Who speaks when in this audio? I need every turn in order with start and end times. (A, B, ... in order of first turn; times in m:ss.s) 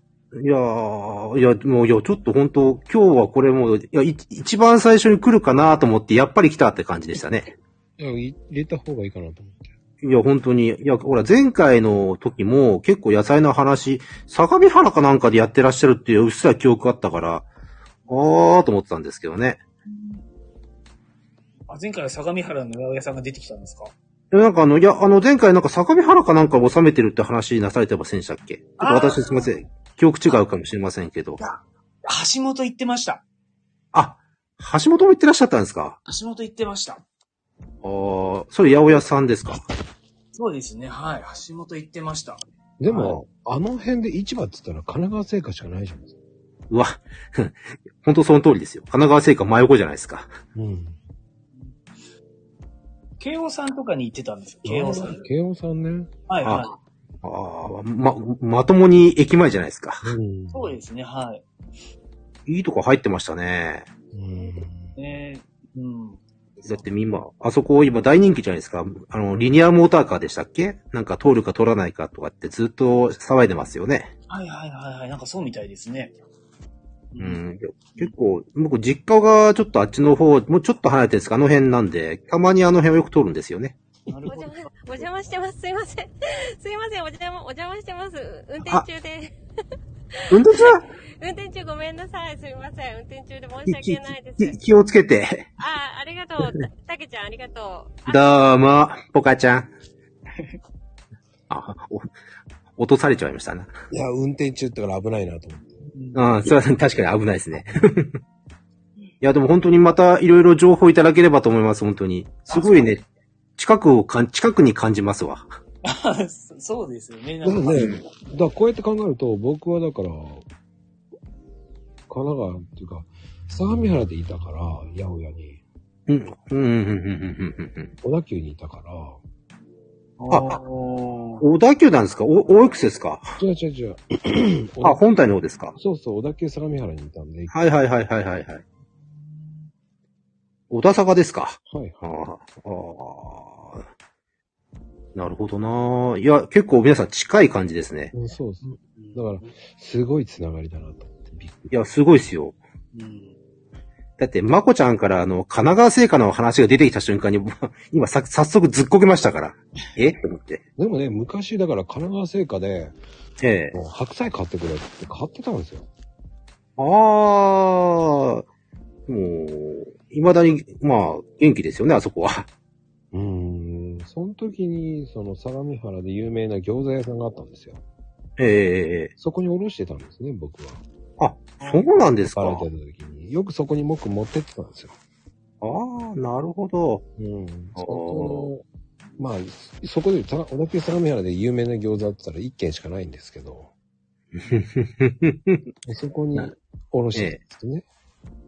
0:00.3-0:07.5 A
0:08.0-0:09.7 B
0:10.0-0:17.5 A
0:18.1-0:19.6 A
0:21.7-0:23.9 C
0:24.3-0:31.4 A
0:28.8-0:29.6 C
0:31.4-0:33.2 C
0:33.9-0:36.0 A
0:36.1-0:37.0 C
0:37.8-0:39.6 A
0:40.3-0:42.4 C
0:42.8-0:46.2 B
0:42.9-0:43.2 A
0:46.7-0:50.3 A
0:50.5-0:51.0 B
0:51.5-0:51.8 C
0:53.2-0:55.2 C
0:54.6-0:56.1 B
0:56.3-0:56.7 C
0:57.2-1:00.1 A
1:00.0-1:00.7 B
1:00.5-1:01.4 C
1:02.5-1:03.9 A
1:04.1-1:04.9 B
1:05.0-1:06.9 C
1:06.6-1:14.1 A
1:14.3-1:16.2 C
1:17.1-1:17.4 C
1:17.2-1:23.8 A
1:24.1-1:25.1 C
1:24.3-1:29.4 D
1:30.2-1:34.6 D
1:30.3-1:30.8 A
1:33.6-1:35.5 A
1:35.6-1:38.2 D
1:38.1-1:39.7 A
1:41.5-1:42.1 A
1:42.8-1:43.7 A
1:43.9-1:45.8 B
1:45.9-1:46.3 C
1:46.1-1:48.2 A
1:49.2-1:53.0 A
1:52.5-1:52.9 C
1:53.6-1:55.5 A
1:55.8-1:58.0 C
1:57.4-2:00.4 B
1:57.7-1:58.0 A
2:02.1-2:05.6 B
2:06.1-2:07.9 A
2:08.0-2:09.2 B
2:10.2-2:11.4 C
2:10.3-2:10.6 A
2:11.4-2:13.4 A
2:13.4-2:15.0 B
2:14.8-2:15.7 A
2:15.7-2:17.5 B
2:17.5-2:18.6 A
2:19.1-2:19.7 C
2:20.7-2:23.8 A
2:21.7-2:22.0 B
2:25.1-2:28.1 A
2:28.1-2:31.7 B
2:28.6-2:29.6 C
2:31.7-2:32.6 A
2:32.9-2:33.3 C
2:34.2-2:40.6 A
2:40.8-2:43.0 B
2:43.4-2:43.8 A
2:43.7-2:45.9 B
2:46.8-2:48.4 A
2:49.1-2:52.5 A
2:53.1-2:57.8 B
2:58.4-2:59.1 A
2:59.2-3:00.8 B
3:01.2-3:02.7 A
3:01.6-3:02.0 C
3:02.3-3:05.0 B
3:05.6-3:07.0 A
3:07.2-3:08.6 B
3:07.8-3:08.5 A
3:09.2-3:13.7 B
3:14.3-3:15.6 A
3:15.8-3:17.8 B
3:17.1-3:17.4 A